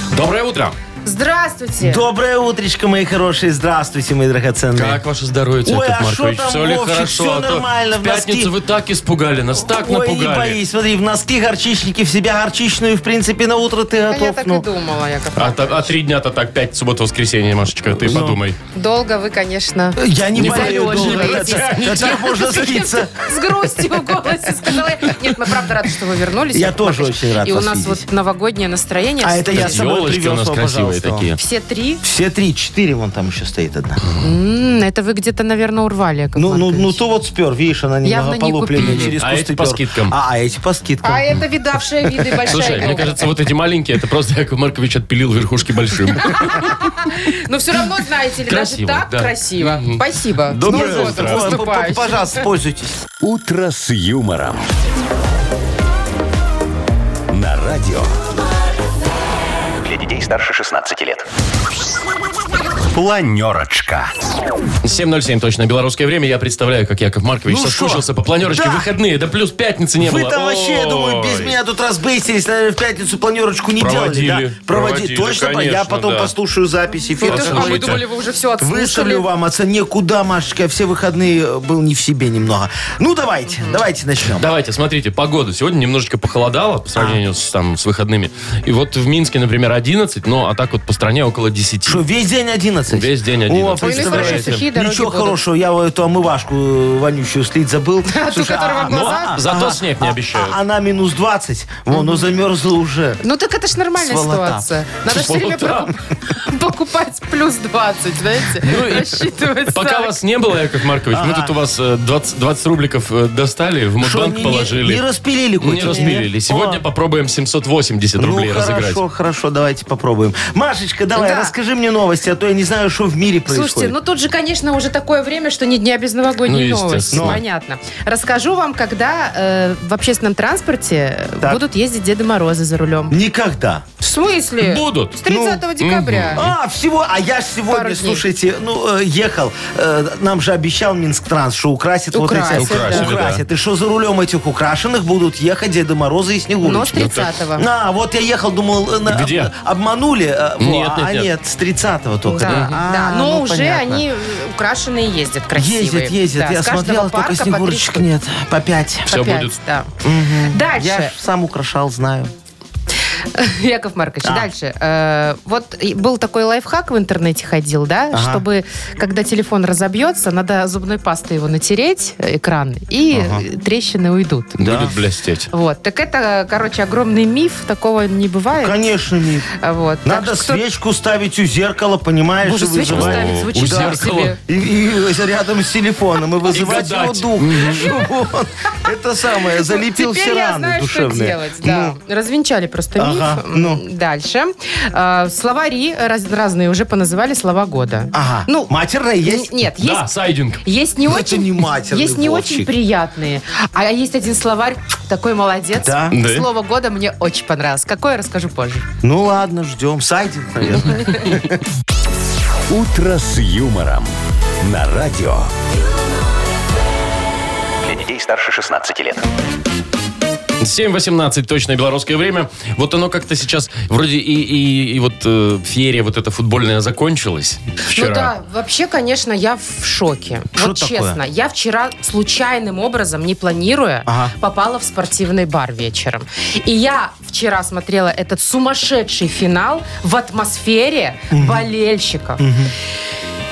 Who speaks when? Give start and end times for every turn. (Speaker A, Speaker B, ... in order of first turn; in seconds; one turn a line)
Speaker A: 0.1-0.8
Speaker B: 1.0-2.0
Speaker C: 1.8-5.0
Speaker A: 4.7-10.6
Speaker C: 5.6-8.5
Speaker C: 9.6-14.7
Speaker B: 14.1-15.9
Speaker A: 15.3-18.6
Speaker C: 18.0-18.4
Speaker B: 18.7-29.9
Speaker C: 20.0-23.3
Speaker A: 20.4-22.5
Speaker C: 26.5-28.0
Speaker C: 29.2-31.3
Speaker A: 29.5-31.4
Speaker B: 31.4-32.0
Speaker C: 32.0-34.0
Speaker B: 34.2-37.0
Speaker C: 36.4-41.4
Speaker B: 38.0-39.1
Speaker A: 38.8-40.1
Speaker B: 41.0-43.3
Speaker C: 42.3-43.0
Speaker A: 42.5-46.8
Speaker B: 46.2-52.5
Speaker A: 48.5-51.5
Speaker C: 50.6-53.0
Speaker D: 53.2-54.7
Speaker D: 57.3-58.1
Speaker D: 59.8-61.2
Speaker D: 62.9-64.1
Speaker A: 64.8-71.5
Speaker C: 67.5-68.9
Speaker C: 70.0-78.0
Speaker A: 73.8-76.3
Speaker B: 77.1-79.3
Speaker A: 77.2-78.0
Speaker C: 78.6-84.5
Speaker B: 83.5-83.8
Speaker A: 84.3-92.0
Speaker C: 86.9-87.2
Speaker C: 91.8-103.2
Speaker A: 92.9-94.6
Speaker B: 93.8-95.4
Speaker B: 98.1-99.4
Speaker A: 98.9-100.6
Speaker B: 101.9-102.2
Speaker B: 103.2-110.1
Speaker C: 104.0-104.7
Speaker A: 105.1-105.9
Speaker A: 108.6-115.0
Speaker C: 111.1-111.5
Speaker C: 114.0-116.8
Speaker A: 115.6-119.0
Speaker B: 115.9-116.2
Speaker C: 118.2-123.9
Speaker B: 121.2-121.5
Speaker B: 123.5-133.2
Speaker A: 126.5-127.4
Speaker C: 127.1-127.4
Speaker C: 133.1-133.8
Speaker B: 134.0-136.4
Speaker A: 134.6-135.2
Speaker C: 135.3-135.6
Speaker A: 135.8-136.5
Speaker C: 136.3-154.1
Speaker B: 137.7-138.2
Speaker B: 142.1-143.1
Speaker A: 142.5-143.4
Speaker B: 146.6-147.6
Speaker A: 146.9-147.3
Speaker A: 149.1-149.5
Speaker A: 150.6-151.3
Speaker B: 152.3-158.1
Speaker A: 152.4-152.7
Speaker C: 155.5-159.1
Speaker B: 159.1-159.9
Speaker A: 159.1-159.5
Speaker C: 160.0-162.3
Speaker B: 160.5-161.1
Speaker B: 163.3-174.6
Speaker C: 168.1-168.4
Speaker C: 173.1-173.4
Speaker A: 174.6-175.5
Speaker C: 174.6-175.0
Speaker B: 175.5-178.8
Speaker C: 178.6-179.5
Speaker B: 179.5-180.6
Speaker C: 180.0-191.9
Speaker B: 182.4-184.4
Speaker A: 182.9-184.3
Speaker A: 186.5-188.0
Speaker B: 189.5-198.7
Speaker C: 192.9-193.8
Speaker C: 198.1-199.6
Speaker B: 199.2-200.1
Speaker A: 199.8-200.6
Speaker B: 200.6-208.9
Speaker C: 201.0-202.7
Speaker C: 205.8-206.2
Speaker A: 206.1-206.5
Speaker C: 209.0-211.5
Speaker D: 212.7-215.5
Speaker D: 217.8-219.2
Speaker A: 220.6-228.3
Speaker B: 227.9-242.4
Speaker C: 230.5-231.2
Speaker C: 234.1-234.3
Speaker C: 241.3-241.7
Speaker C: 242.4-242.7